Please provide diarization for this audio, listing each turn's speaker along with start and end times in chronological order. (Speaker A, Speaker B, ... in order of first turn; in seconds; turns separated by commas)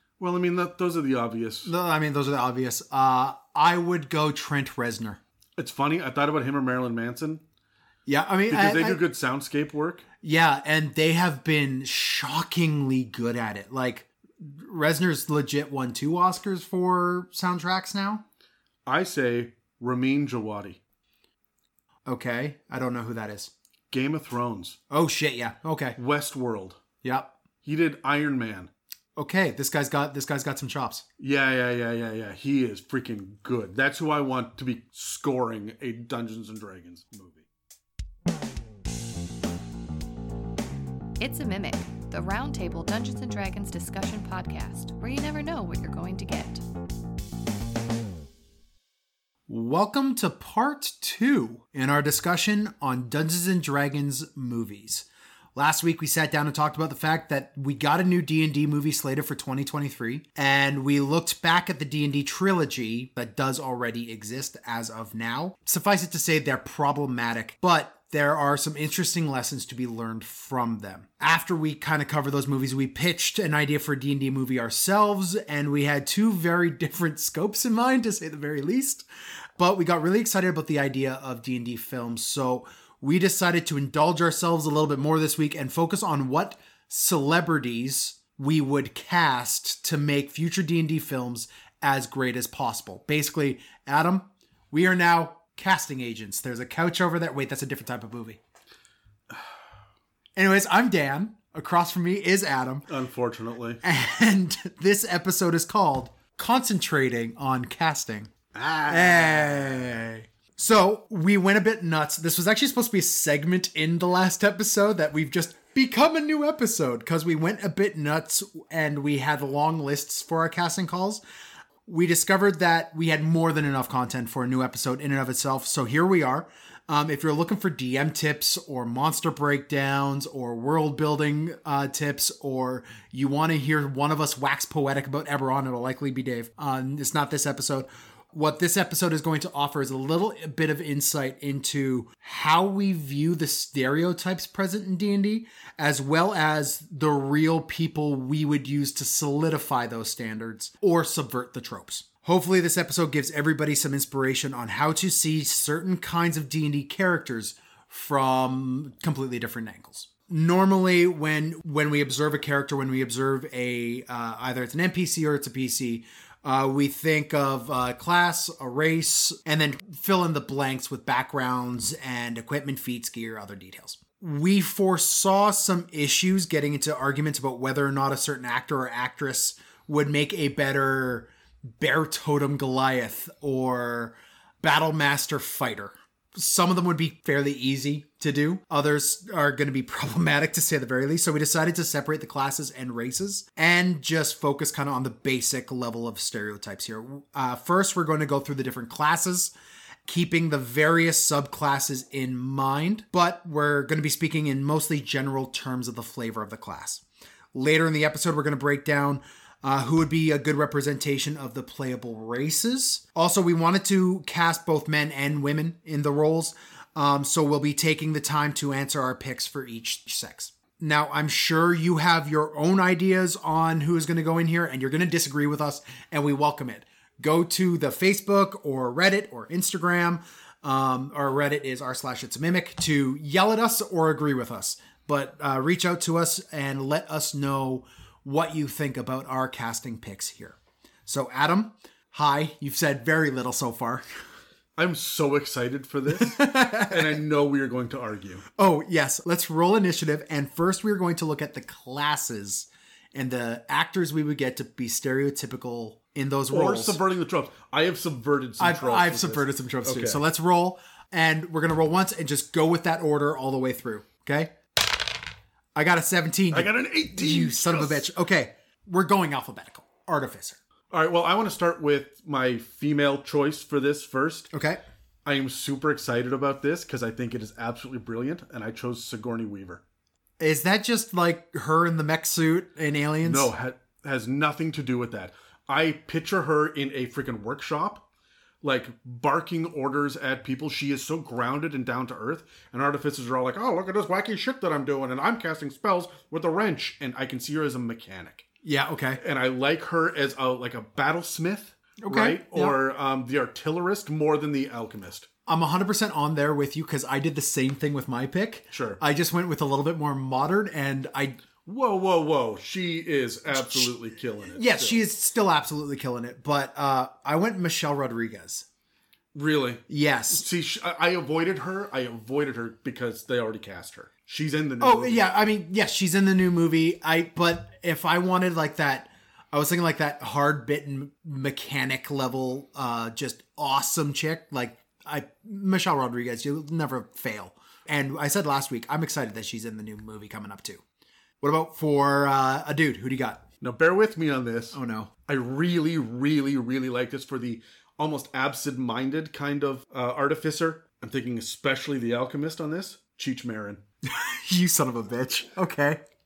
Speaker A: 0.2-1.7, Speaker B: 1.6-5.2, Speaker A: 5.6-7.4, Speaker B: 8.1-9.0, Speaker A: 8.5-10.1, Speaker B: 10.2-18.2, Speaker A: 18.9-20.8, Speaker B: 22.1-23.5, Speaker A: 23.9-24.8, Speaker B: 24.9-26.0, Speaker A: 25.9-26.8, Speaker B: 27.0-27.3, Speaker A: 27.6-28.7, Speaker B: 29.1-31.0, Speaker A: 31.2-37.5, Speaker C: 41.2-46.6, Speaker B: 49.5-79.0, Speaker B: 79.6-98.4, Speaker B: 100.3-102.9, Speaker A: 102.9-103.8, Speaker B: 103.8-108.3, Speaker A: 108.5-109.9, Speaker B: 108.9-121.2, Speaker B: 121.8-199.5, Speaker B: 200.1-244.0, Speaker A: 244.8-248.4, Speaker B: 246.1-247.2, Speaker B: 248.6-257.0, Speaker A: 256.5-260.2, Speaker B: 258.6-264.6, Speaker B: 265.7-270.6, Speaker A: 266.5-268.0, Speaker A: 270.9-274.5, Speaker B: 274.5-274.8, Speaker A: 275.2-279.8, Speaker B: 280.4-283.5, Speaker A: 283.2-288.1, Speaker A: 288.6-298.5, Speaker B: 298.6-299.2, Speaker A: 299.2-305.3, Speaker B: 302.0-302.8, Speaker B: 305.5-311.4, Speaker A: 308.7-309.0, Speaker A: 311.6-315.0, Speaker B: 313.5-318.7, Speaker A: 319.3-325.3, Speaker B: 319.9-320.4, Speaker B: 324.8-340.8, Speaker B: 341.4-343.5, Speaker A: 343.6-353.8, Speaker B: 344.7-345.1, Speaker B: 354.0-356.0